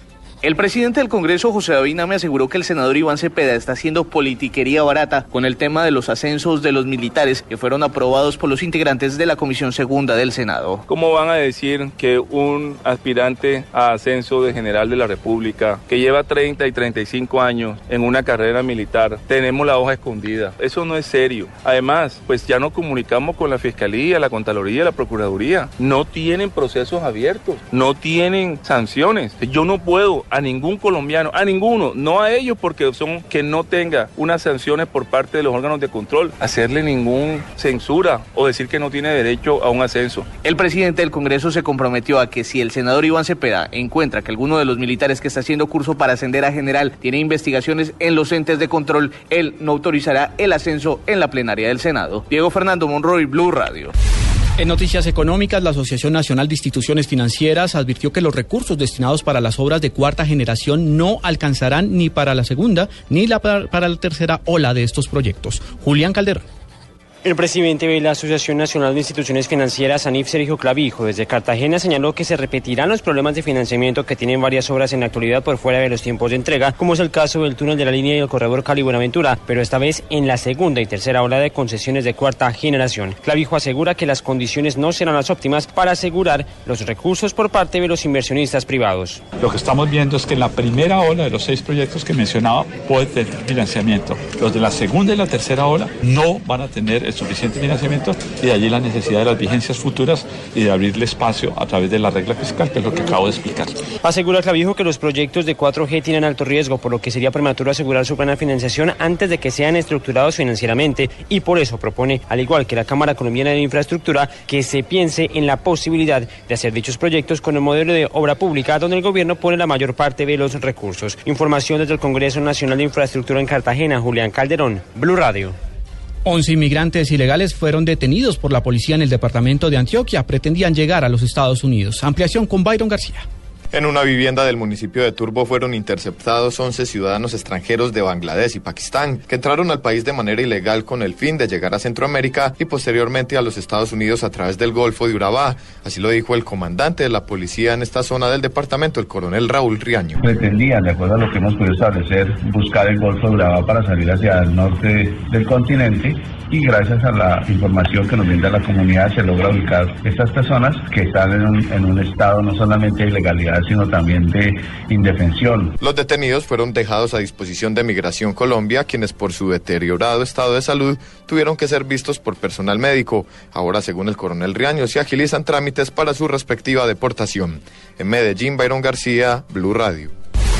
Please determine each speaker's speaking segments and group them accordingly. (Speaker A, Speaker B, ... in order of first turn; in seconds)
Speaker A: 0.4-10.8, 40.4-53.9
Speaker B: 10.9-40.3
Speaker C: 54.6-66.5, 126.2-133.2
Speaker D: 67.2-89.2, 104.0-125.5
Speaker E: 89.4-103.8
Speaker F: 133.7-150.2, 165.8-180.1
Speaker G: 150.2-165.7